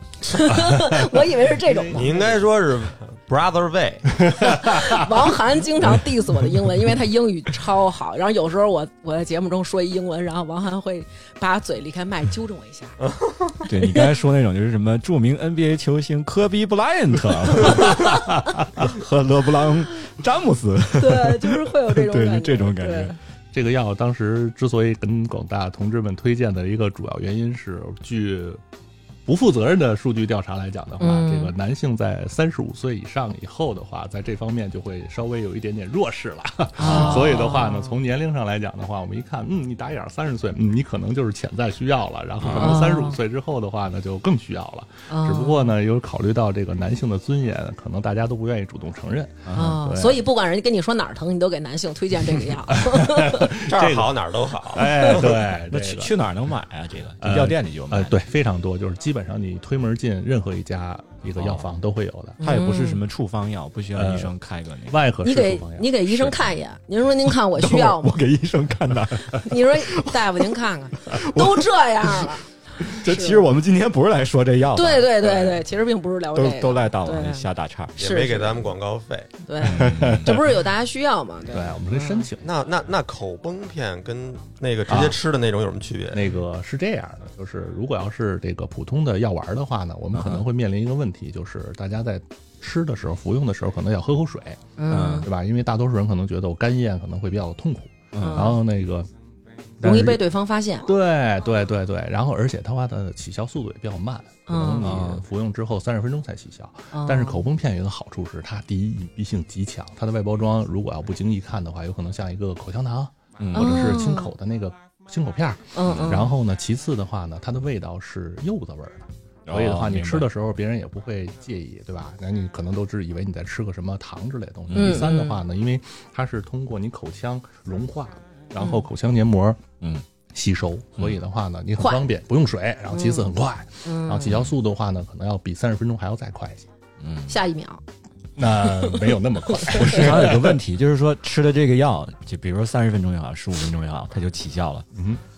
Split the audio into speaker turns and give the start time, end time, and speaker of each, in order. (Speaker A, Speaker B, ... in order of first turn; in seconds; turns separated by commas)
Speaker A: 0.2-2.2, Speaker B: 0.5-2.3, Speaker C: 1.9-4.2, Speaker B: 4.2-5.1, Speaker A: 4.4-13.0, Speaker C: 13.0-13.7, Speaker D: 13.7-23.1, Speaker A: 13.7-14.1, Speaker A: 20.9-23.2, Speaker B: 23.5-28.6, Speaker B: 29.2-50.2, Speaker A: 31.0-31.5, Speaker A: 36.8-38.0, Speaker D: 36.8-37.3, Speaker A: 42.5-43.2, Speaker A: 45.1-45.8, Speaker D: 49.5-49.7, Speaker A: 49.5-53.5, Speaker B: 52.7-56.1, Speaker C: 53.5-54.9, Speaker D: 55.0-58.2, Speaker B: 57.2-62.4, Speaker D: 61.4-61.7, Speaker A: 62.4-63.0, Speaker D: 62.4-65.0, Speaker B: 63.9-64.3, Speaker B: 64.9-66.4, Speaker A: 65.2-68.2, Speaker D: 67.5-70.4, Speaker A: 69.3-73.4, Speaker D: 71.1-72.3, Speaker D: 72.8-75.5, Speaker A: 74.7-77.5, Speaker D: 76.3-78.0, Speaker C: 78.0-79.3, Speaker A: 78.0-78.7, Speaker A: 79.4-82.3, Speaker D: 79.6-80.4, Speaker B: 79.6-80.5, Speaker B: 81.5-82.5, Speaker C: 82.4-86.3, Speaker B: 84.9-85.2, Speaker B: 86.1-99.1, Speaker D: 90.1-90.4, Speaker A: 94.8-95.3, Speaker D: 94.9-95.3, Speaker D: 98.1-98.5, Speaker A: 98.2-98.6, Speaker B: 99.8-100.2, Speaker A: 99.8-100.9, Speaker B: 100.8-129.6, Speaker A: 104.5-105.0, Speaker D: 104.8-105.2, Speaker A: 106.9-107.4, Speaker D: 113.4-114.0, Speaker A: 113.5-114.3, Speaker A: 115.7-116.3, Speaker D: 115.8-116.3, Speaker D: 119.5-120.3, Speaker D: 124.7-125.1, Speaker A: 124.7-125.4, Speaker A: 128.6-128.8, Speaker B: 130.3-136.7, Speaker A: 131.8-132.1, Speaker A: 132.9-133.3, Speaker A: 133.8-134.4, Speaker D: 134.2-134.5, Speaker D: 137.0-137.3, Speaker A: 137.3-137.8, Speaker B: 138.3-140.6, Speaker A: 138.8-140.0, Speaker D: 139.7-144.8, Speaker B: 144.9-145.2